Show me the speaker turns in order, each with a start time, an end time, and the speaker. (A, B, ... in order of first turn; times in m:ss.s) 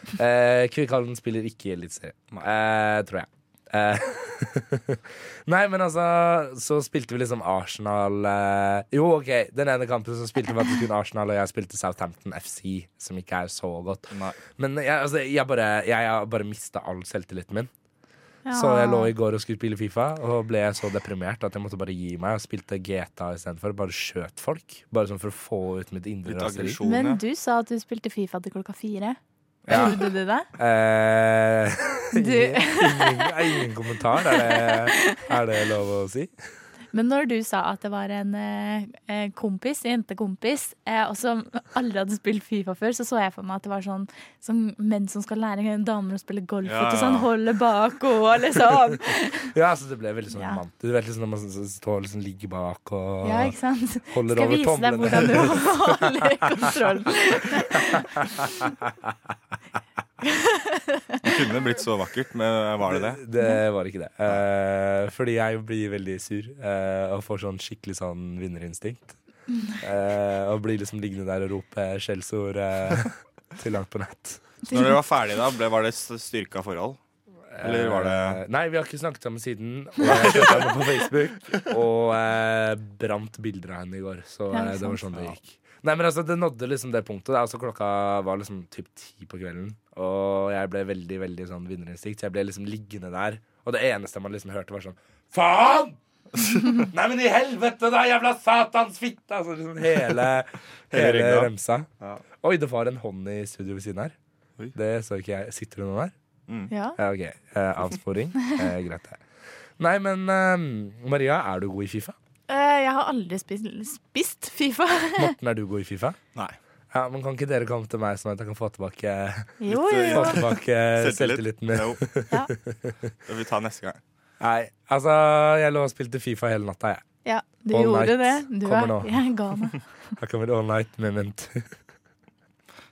0:00.2-0:17.7 A
0:14.1-0:14.4 B
0:18.4-0:19.1 C
0:18.5-0:26.8 A
0:26.2-0:27.2 B
0:26.8-0:30.5 C
0:29.6-0:30.0 B
0:29.7-0:30.0 A
0:30.6-0:36.3 A
0:32.1-0:33.3 C
0:34.3-0:35.3 C
0:36.9-0:49.5 C
0:46.6-0:47.3 B
0:49.5-0:53.5 A
0:50.3-0:50.6 C
0:53.2-0:58.7 C
0:54.1-0:56.3 A
0:58.9-0:59.1 A
1:00.2-1:01.0 C
1:01.2-1:03.2 B
1:02.9-1:09.2 A
1:09.8-1:14.4 A
1:14.7-1:17.0 B
1:17.5-1:41.9 A
1:17.6-1:18.4 B
1:20.1-1:20.6 B
1:24.5-1:25.0 C
1:25.1-1:25.4 B
1:40.9-1:42.2 B
1:42.4-1:44.1 A
1:44.7-1:46.1 A
1:46.7-1:47.0 C
1:47.0-1:49.2 A
1:49.8-1:52.2 A
1:52.5-1:55.3 C
1:55.2-1:56.2 A
1:56.9-2:03.0 A
1:59.6-2:00.4 C
1:59.7-2:02.0 B
2:03.2-2:04.0 B
2:04.4-2:07.0 A
2:07.2-2:09.8 C
2:07.7-2:09.1 A
2:10.2-2:11.7 A